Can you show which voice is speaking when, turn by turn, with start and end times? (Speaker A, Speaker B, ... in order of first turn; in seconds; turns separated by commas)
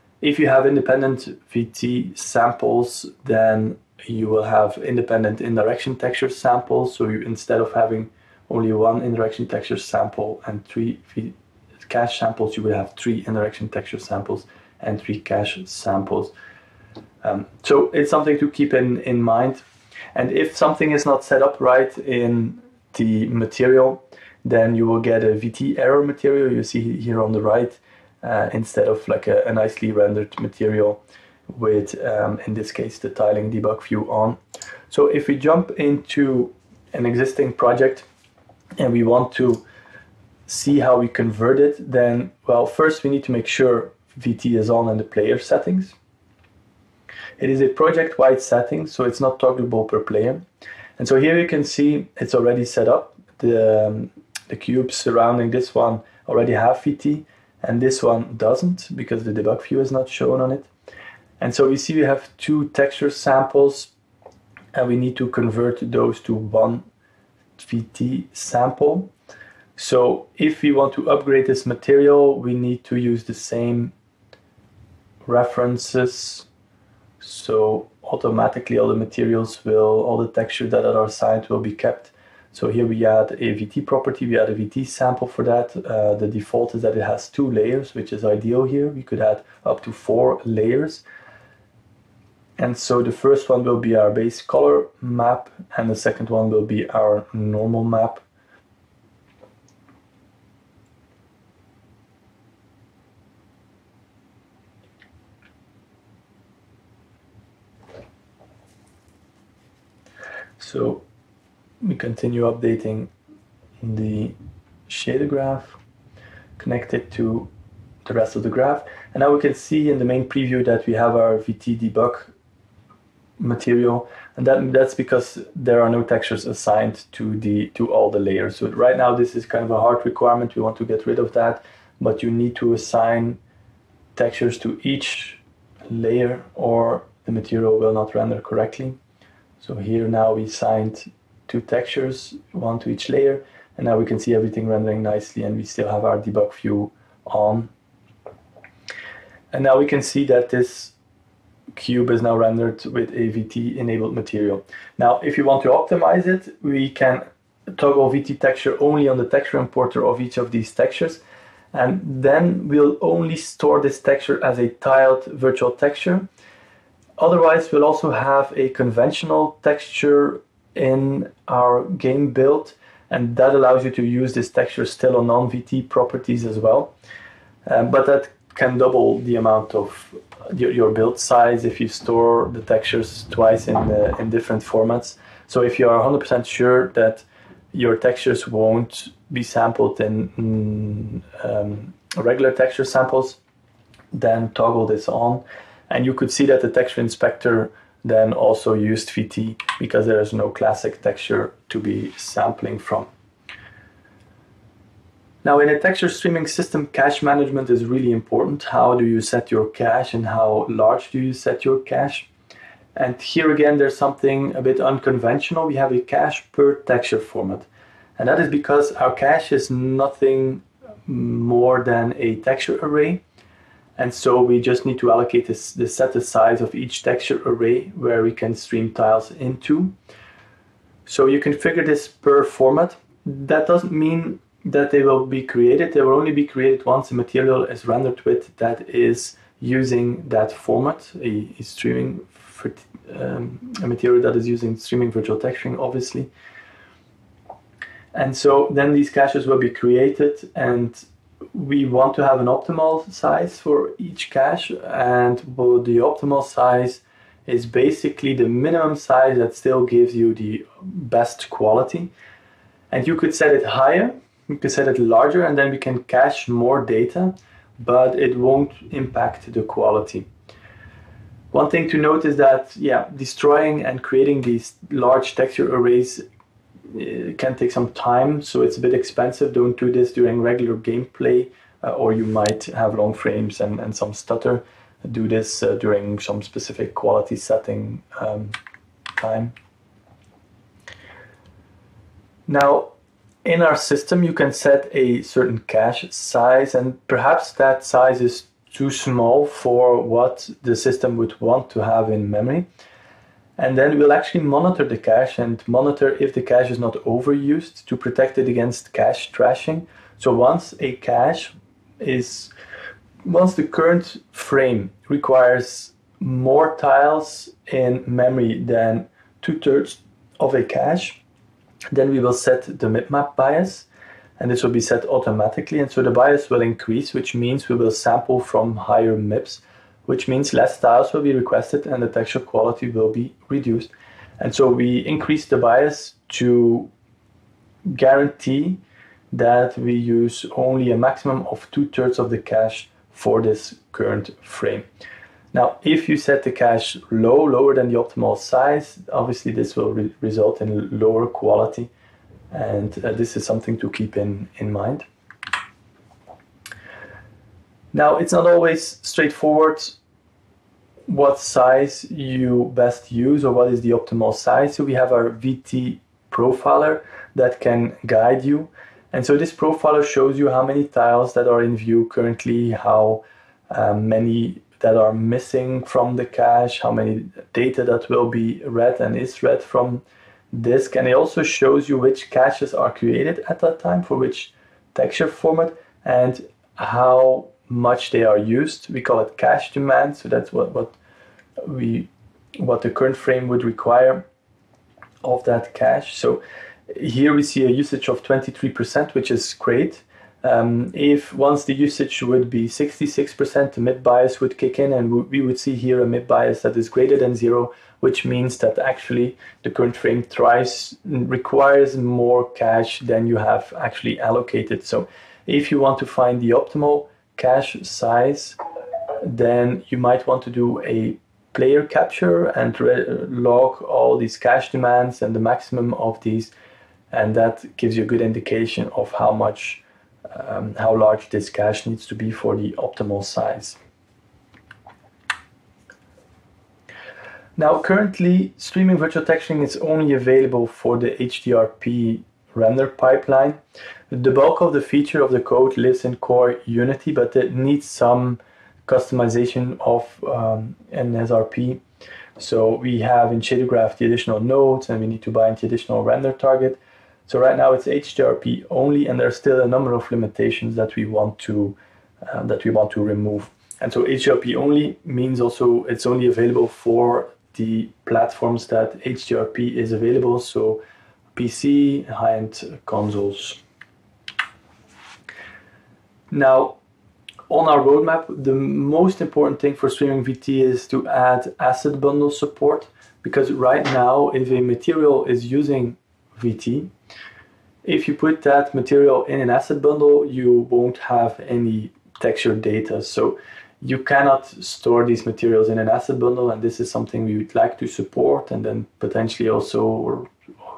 Speaker A: 0.2-11.4, Speaker A: 11.9-16.3, Speaker A: 17.2-19.6, Speaker A: 20.1-34.4, Speaker A: 34.9-38.1, Speaker A: 38.8-39.6, Speaker A: 40.5-46.0, Speaker A: 47.4-50.5, Speaker A: 51.0-60.7, Speaker A: 61.4-63.9, Speaker A: 64.7-66.8, Speaker A: 67.6-69.1, Speaker A: 69.8-73.9, Speaker A: 75.2-76.5, Speaker A: 77.2-91.0, Speaker A: 92.6-98.2, Speaker A: 110.6-111.0, Speaker A: 111.8-113.1, Speaker A: 113.8-114.3, Speaker A: 114.9-115.8, Speaker A: 116.6-117.5, Speaker A: 118.0-122.3, Speaker A: 123.4-133.4, Speaker A: 134.2-139.0, Speaker A: 139.6-147.7, Speaker A: 149.5-150.9, Speaker A: 151.7-161.2, Speaker A: 161.7-166.2, Speaker A: 167.2-176.9, Speaker A: 177.7-193.4, Speaker A: 194.1-203.1, Speaker A: 205.4-212.3, Speaker A: 213.0-217.7, Speaker A: 218.2-223.2, Speaker A: 224.0-229.9, Speaker A: 231.1-246.3, Speaker A: 248.1-262.1, Speaker A: 262.9-270.3, Speaker A: 271.5-276.2, Speaker A: 276.9-288.5, Speaker A: 289.2-289.5, Speaker A: 292.5-292.9, Speaker A: 293.4-302.7, Speaker A: 303.6-312.5, Speaker A: 313.2-321.2, Speaker A: 321.9-323.9, Speaker A: 324.4-336.9, Speaker A: 337.9-338.8, Speaker A: 339.3-344.9, Speaker A: 345.5-351.9, Speaker A: 352.5-355.0, Speaker A: 357.9-360.0, Speaker A: 361.1-391.0, Speaker A: 391.6-394.2, Speaker A: 395.2-418.6, Speaker A: 419.2-426.5, Speaker A: 427.1-429.8, Speaker A: 430.3-433.8, Speaker A: 437.6-443.6, Speaker A: 444.1-451.8, Speaker A: 452.4-461.8, Speaker A: 462.3-470.8, Speaker A: 471.4-473.6, Speaker A: 476.3-476.8, Speaker A: 477.5-486.9, Speaker A: 487.8-500.3